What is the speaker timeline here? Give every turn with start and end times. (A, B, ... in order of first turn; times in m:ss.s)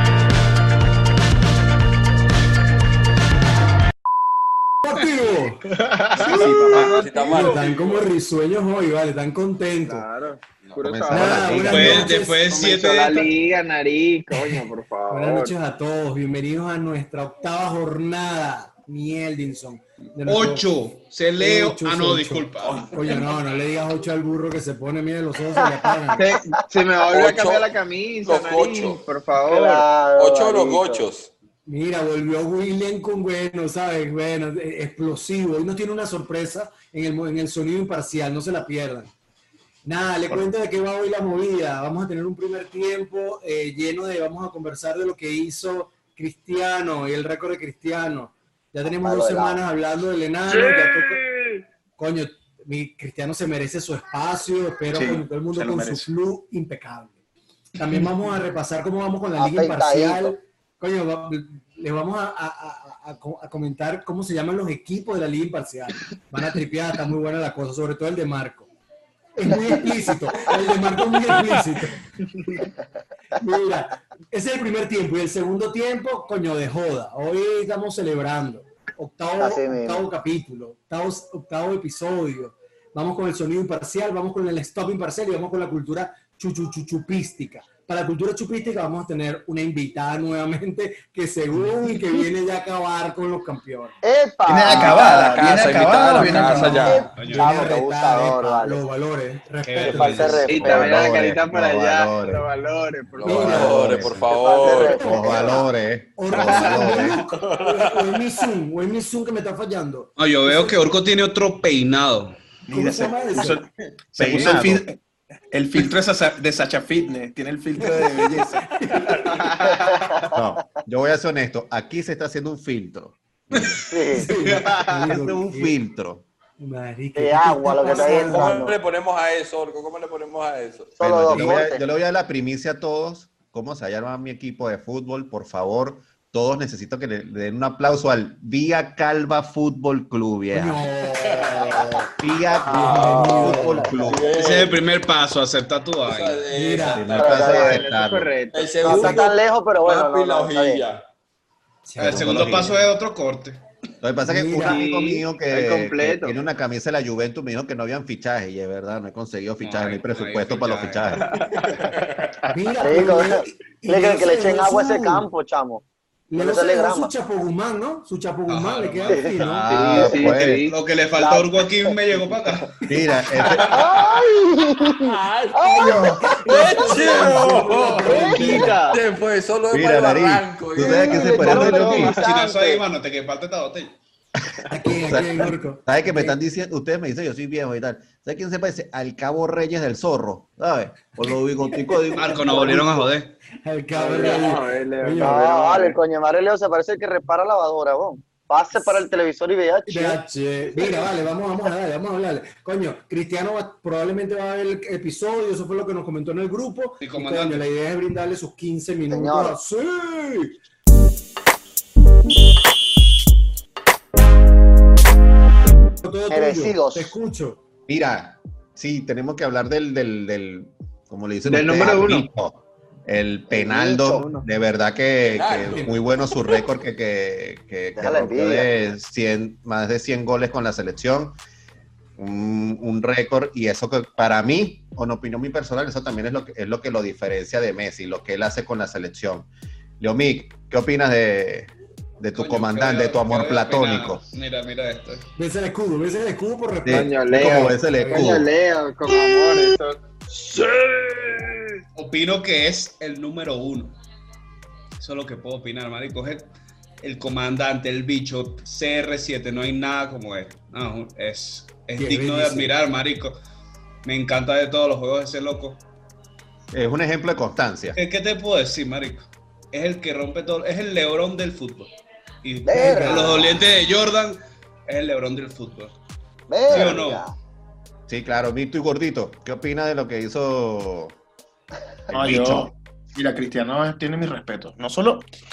0:04.8-0:05.7 A
0:06.0-0:08.1 B
0:06.2-0:06.8 C
0:06.2-0:10.0 A
0:06.7-0:07.7 D
0:09.8-0:15.5 B
0:10.8-0:12.1 E
0:11.1-0:12.4 A
0:11.7-0:13.3 F
0:15.1-0:20.6 A
0:20.2-0:22.9 F
0:21.4-0:26.2 A
0:22.6-0:23.2 C
0:26.2-0:29.9 B
0:27.1-0:27.7 D
0:28.2-0:29.0 D
0:29.4-0:31.1 G
0:30.2-0:31.3 D
0:31.6-0:39.1 A
0:39.9-0:51.2 A
0:48.8-0:49.6 G
0:52.0-0:57.2 A
0:54.9-0:56.1 C
0:57.8-1:08.7 A
0:59.4-1:00.3 G
1:09.4-1:12.0 A
1:13.4-1:34.0 A
1:19.4-1:20.0 G
1:34.0-1:35.3 G
1:34.4-1:36.9 C
1:34.7-1:37.0 D
1:34.7-1:35.1 A
1:35.8-1:40.5 A
1:36.8-1:38.8 G
1:37.1-1:37.8 F
1:39.6-1:40.5 F
1:39.8-1:41.0 G
1:40.5-1:44.0 B
1:40.5-1:42.4 E
1:43.2-1:45.1 D
1:43.2-1:44.1 A
1:43.2-1:44.0 E
1:44.0-1:44.3 F
1:44.3-1:45.7 G
1:44.6-1:45.6 A
1:44.9-1:47.2 E
1:46.2-1:50.7 A
1:46.5-1:48.4 D
1:50.2-1:52.4 F
1:52.7-1:55.0 C
1:52.7-1:53.6 A
1:54.1-1:54.8 E
1:55.5-1:59.7 C
1:57.8-1:59.5 A
1:59.7-2:00.4 G
2:00.3-2:03.8 E
2:03.9-2:04.3 G
2:04.1-2:05.8 A
2:05.1-2:06.2 E
2:06.6-2:08.6 A
2:07.2-2:08.8 G
2:07.8-2:11.0 D
2:11.0-2:11.8 G
2:11.0-2:20.8 E
2:20.5-2:22.1 A
2:21.2-2:22.0 D
2:22.2-2:24.3 E
2:22.7-2:23.5 G
2:22.7-2:24.0 A
2:22.7-2:24.8 D
2:24.3-2:26.4 F
2:26.0-2:27.7 D
2:26.5-2:27.2 A
2:26.9-2:28.3 E
2:27.2-2:27.8 G
2:27.2-2:29.2 B
2:28.5-2:31.0 D
2:28.8-2:30.9 G
2:31.9-2:32.8 A
2:32.0-2:33.6 F
2:32.1-2:32.6 E
2:34.0-2:41.3 E
2:34.2-2:34.8 A
2:34.6-2:36.4 B
2:39.6-2:41.4 F
2:42.5-2:45.3 A
2:42.8-2:45.8 G
2:46.3-2:49.7 A
2:46.3-2:47.1 G
2:48.5-2:53.0 F
2:49.4-2:50.6 E
2:49.7-2:50.8 B
2:51.2-2:51.9 G
2:52.9-2:53.8 E
2:53.7-2:54.2 D
2:53.7-2:56.4 G
2:55.0-3:02.1 D
2:55.9-2:58.8 A
2:56.5-2:59.0 B
2:59.7-3:02.2 E
3:00.8-3:02.8 G
3:01.8-3:04.0 F
3:04.7-3:06.3 A
3:05.0-3:13.0 E
3:12.2-3:13.3 F
3:12.2-3:13.1 A
3:13.6-3:15.5 A
3:13.9-3:16.0 B
3:15.2-3:20.2 G
3:19.9-3:30.5 A
3:27.0-3:27.6 F
3:29.1-3:29.6 G
3:36.0-3:37.6 A
3:36.3-3:37.2 G
3:37.9-3:51.4 E
3:41.4-3:42.3 B
3:43.5-3:44.4 G
3:45.3-3:46.0 D
3:48.0-3:48.7 G
3:52.2-3:59.5 E
4:00.0-4:04.2 E
4:02.3-4:05.3 F
4:05.4-4:08.3 A
4:06.9-4:08.5 E
4:06.9-4:10.0 B
4:12.0-4:13.9 F
4:15.0-4:16.5 F
4:17.0-4:23.4 F
4:22.0-4:22.7 A
4:24.0-4:25.8 F
4:26.7-4:28.0 E
4:27.9-4:31.9 F
4:32.4-4:35.9 F
4:32.7-4:33.6 G
4:32.8-4:33.5 A
4:36.5-4:37.3 G
4:36.7-4:37.2 F
4:38.1-4:41.2 E
4:42.1-4:42.7 E
4:42.1-4:45.3 C